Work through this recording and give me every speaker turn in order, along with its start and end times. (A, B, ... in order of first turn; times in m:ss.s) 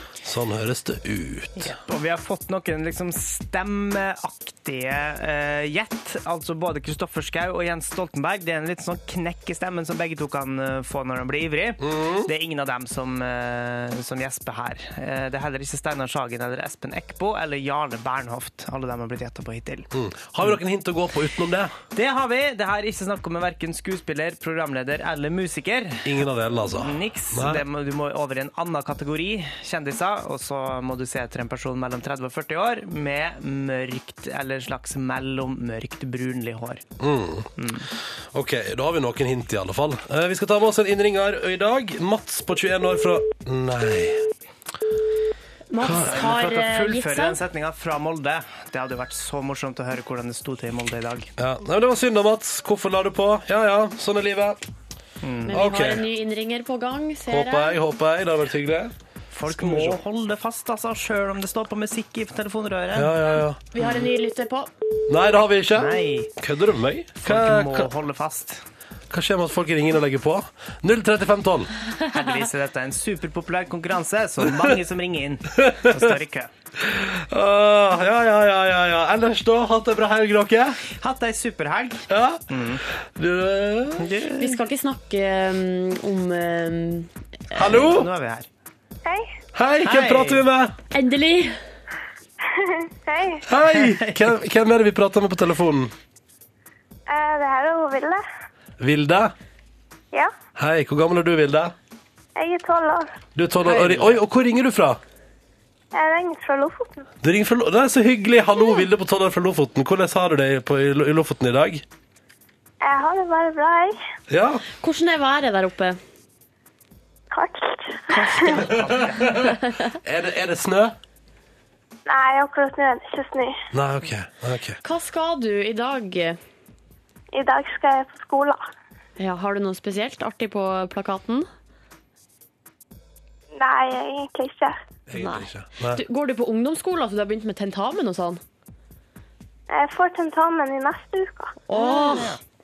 0:00.2-0:01.7 A
0:01.6-0:19.9 B
0:11.8-0:12.3 A
0:19.9-0:21.7 A
0:21.9-0:26.2 B
0:26.0-0:27.6 A
0:26.8-0:36.8 B
0:37.0-0:37.5 A
0:37.6-0:37.9 B
0:38.3-0:44.2 A
0:45.7-0:47.4 C
0:45.8-0:46.1 A
0:45.8-0:51.3 B
0:51.4-0:54.6 A
0:55.2-0:55.6 B
0:55.4-0:57.8 C
0:55.5-0:56.0 A
0:57.3-0:58.9 A
0:59.3-1:03.1 B
0:59.5-1:00.0 A
1:02.9-1:03.6 A
1:03.7-1:04.7 C
1:03.8-1:04.1 B
1:05.1-1:07.9 A
1:05.7-1:06.3 B
1:07.2-1:08.6 B
1:09.1-1:11.7 A
1:12.1-1:16.5 B
1:14.4-1:14.7 A
1:15.5-1:16.1 A
1:16.8-1:20.8 A
1:21.0-1:22.8 B
1:22.1-1:24.2 A
1:24.0-1:24.6 B
1:24.4-1:27.1 C
1:27.5-1:28.1 A
1:27.5-1:28.5 B
1:29.0-1:29.3 D
1:29.5-1:30.7 A
1:29.8-1:30.4 B
1:30.9-1:31.6 C
1:32.4-1:33.4 D
1:33.5-1:35.9 A
1:37.1-1:38.2 D
1:38.8-1:39.3 A
1:40.6-1:41.7 A
1:42.4-1:43.1 D
1:43.4-1:45.0 A
1:43.6-1:44.2 B
1:45.9-1:47.0 D
1:47.2-1:51.8 A
1:52.8-1:54.0 D
1:54.3-1:54.6 A
1:54.8-1:56.0 C
1:57.3-1:58.5 D
1:58.1-1:59.9 C
1:58.7-1:59.4 B
1:58.7-2:01.0 A
2:02.0-2:03.6 D
2:03.7-2:04.8 A
2:04.8-2:06.4 C
2:07.3-2:08.6 D
2:09.2-2:11.5 C
2:13.5-2:14.8 D
2:15.1-2:16.0 A
2:15.2-2:18.4 C
2:19.7-2:21.6 D
2:21.7-2:22.4 C
2:21.7-2:22.4 B